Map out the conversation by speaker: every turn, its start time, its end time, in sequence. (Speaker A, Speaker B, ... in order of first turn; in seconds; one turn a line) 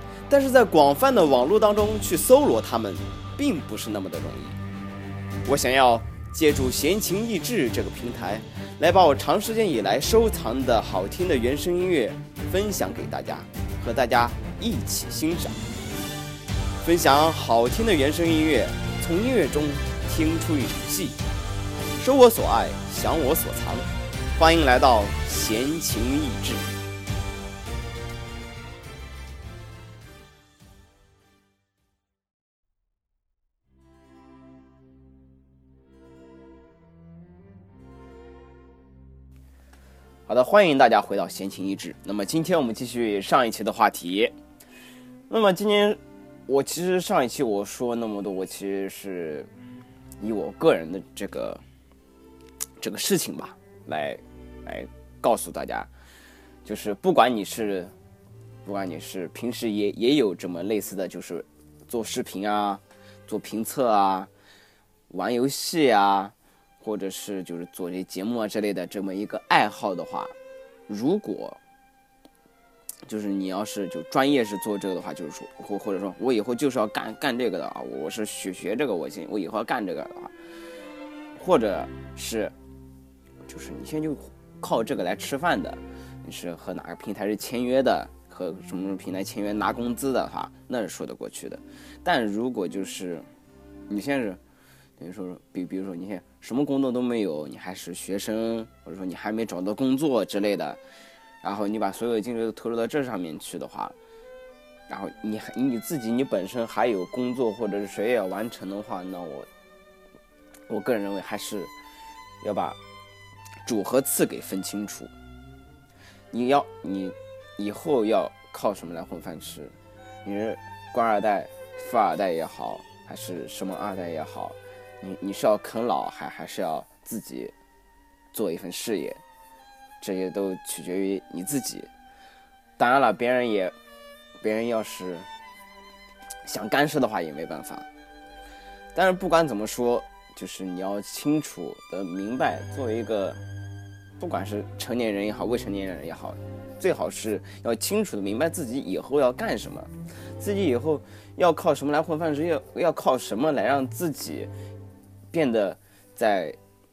Speaker A: 0.3-4.6
Speaker A: 5.5-15.6
Speaker A: 16.8-21.2
Speaker A: 22.0-26.7
Speaker A: 40.3-44.3
Speaker A: 45.3-49.5
Speaker A: 50.2-51.6
Speaker A: 52.8-55.9
Speaker A: 56.6-57.9
Speaker A: 58.6-64.3
Speaker A: 65.1-70.3
Speaker A: 70.9-71.6
Speaker A: 73.1-80.3
Speaker A: 81.4-82.5
Speaker A: 83.5-93.3
Speaker A: 93.9-94.4
Speaker A: 95.0-100.8
Speaker A: 101.4-104.0
Speaker A: 104.9-109.5
Speaker A: 110.7-111.7
Speaker A: 112.4-112.8
Speaker A: 113.7-115.1
Speaker A: 116.3-127.5
Speaker A: 128.3-129.2
Speaker A: 130.0-131.9
Speaker A: 132.8-133.8
Speaker A: 134.4-135.3
Speaker A: 136.4-137.9
Speaker A: 138.9-143.4
Speaker A: 144.2-154.5
Speaker A: 155.3-156.6